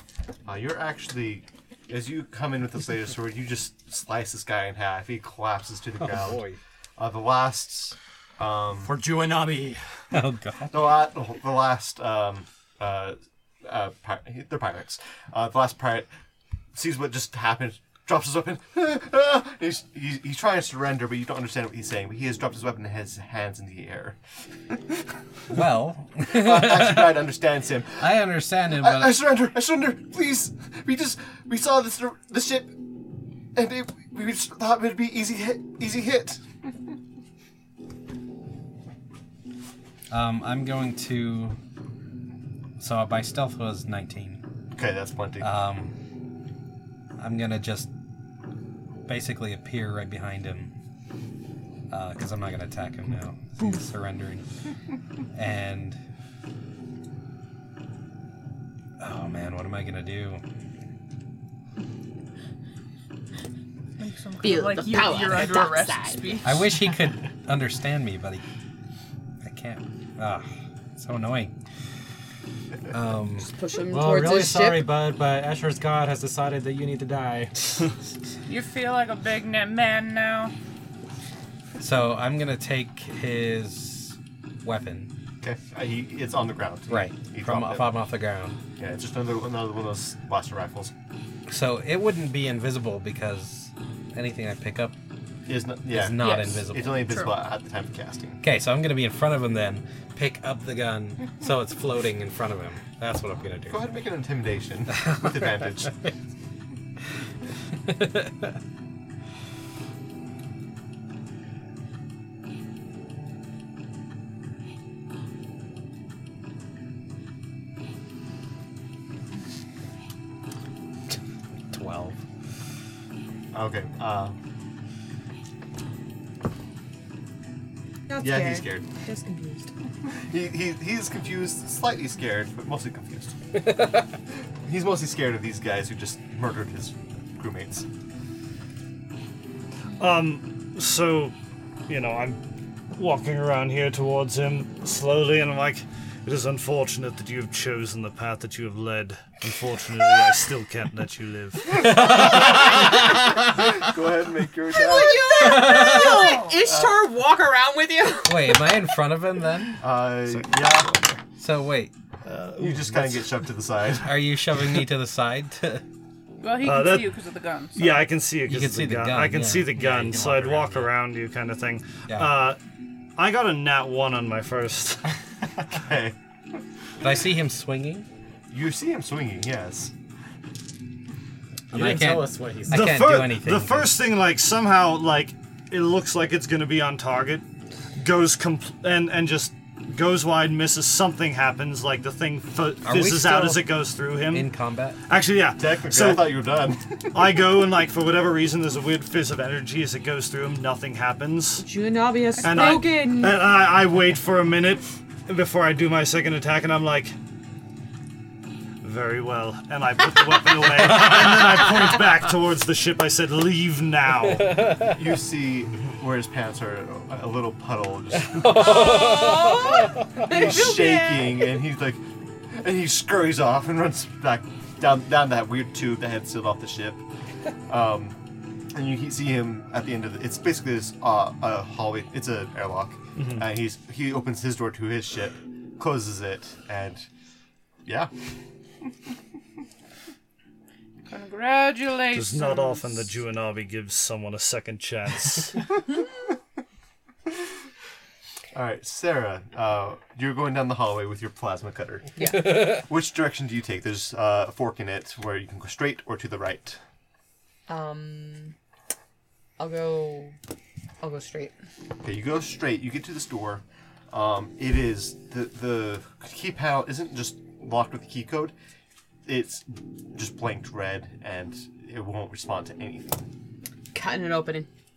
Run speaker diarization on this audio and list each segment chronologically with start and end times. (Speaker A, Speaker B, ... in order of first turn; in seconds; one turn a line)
Speaker A: 0.5-6.5
Speaker B: 6.0-6.6
Speaker A: 7.0-9.0
Speaker C: 8.8-9.9
Speaker B: 10.1-10.8
Speaker A: 10.7-16.1
Speaker A: 16.7-24.2
Speaker B: 25.5-27.3
Speaker A: 26.2-32.8
Speaker B: 28.0-29.2
Speaker A: 33.5-36.5
Speaker B: 40.1-41.6
Speaker B: 42.8-44.4
Speaker A: 44.8-45.5
Speaker B: 45.4-45.9
Speaker B: 47.2-47.9
Speaker B: 49.1-50.7
Speaker B: 51.9-54.5
Speaker B: 55.3-56.0
Speaker B: 59.0-60.4
Speaker D: 64.0-66.7
Speaker E: 64.4-66.7
Speaker B: 66.4-68.4
Speaker B: 69.4-71.5
Speaker B: 72.9-73.5
Speaker E: 73.4-75.0
Speaker C: 73.9-77.9
Speaker D: 78.5-80.5
Speaker B: 81.8-85.1
Speaker A: 85.4-88.0
Speaker B: 86.9-88.6
Speaker A: 88.8-90.9
Speaker B: 91.5-95.0
Speaker A: 95.5-98.4
Speaker B: 95.9-97.1
Speaker D: 96.2-96.5
Speaker D: 97.1-97.3
Speaker B: 98.4-103.9
Speaker A: 103.7-106.0
Speaker B: 105.0-106.1
Speaker B: 107.8-108.6
Speaker B: 121.7-122.2
Speaker A: 123.5-124.4
Speaker E: 128.1-129.7
Speaker A: 128.2-128.9
Speaker A: 130.2-133.6
Speaker B: 133.7-134.0
Speaker A: 134.6-137.9
Speaker F: 140.0-141.3
Speaker F: 141.9-142.4
Speaker F: 143.0-152.7
Speaker B: 151.7-153.2
Speaker A: 151.8-155.3
Speaker E: 152.2-153.5
Speaker E: 154.7-158.7
Speaker B: 155.3-156.2
Speaker D: 155.5-156.6
Speaker A: 156.7-157.0
Speaker B: 158.2-159.8
Speaker A: 159.8-161.2
Speaker F: 160.3-160.6
Speaker B: 161.4-161.9
Speaker F: 162.2-163.3
Speaker A: 162.6-164.2
Speaker B: 164.0-165.8
Speaker D: 166.4-168.1
Speaker F: 166.6-167.2
Speaker F: 167.8-172.6
Speaker B: 168.4-169.7
Speaker C: 169.7-170.9
Speaker B: 172.1-172.3
Speaker F: 173.2-175.2
Speaker A: 175.7-176.2
Speaker B: 177.0-178.1
Speaker A: 178.5-179.9
Speaker C: 181.7-182.9
Speaker B: 181.7-184.0
Speaker F: 182.7-187.4
Speaker F: 188.0-194.5
Speaker B: 192.8-193.7
Speaker B: 194.3-195.0
Speaker F: 195.1-196.4
Speaker A: 195.6-197.2
Speaker F: 197.1-201.7
Speaker E: 201.6-203.4
Speaker D: 202.4-202.9
Speaker F: 202.4-207.2
Speaker F: 208.8-214.7
Speaker B: 210.7-211.7
Speaker B: 214.3-214.9
Speaker A: 214.8-218.6
Speaker B: 218.1-220.3
Speaker E: 218.5-221.6
Speaker A: 220.3-227.0
Speaker A: 227.7-228.2
Speaker A: 228.7-237.1
Speaker F: 233.2-233.4
Speaker A: 237.9-238.1
Speaker D: 241.1-243.1
Speaker F: 242.1-245.7
Speaker A: 248.5-256.8
Speaker E: 252.2-252.8
Speaker E: 257.7-258.6
Speaker E: 259.6-260.4
Speaker E: 261.0-261.5
Speaker A: 262.0-268.5
Speaker A: 269.3-273.2
Speaker E: 273.9-274.7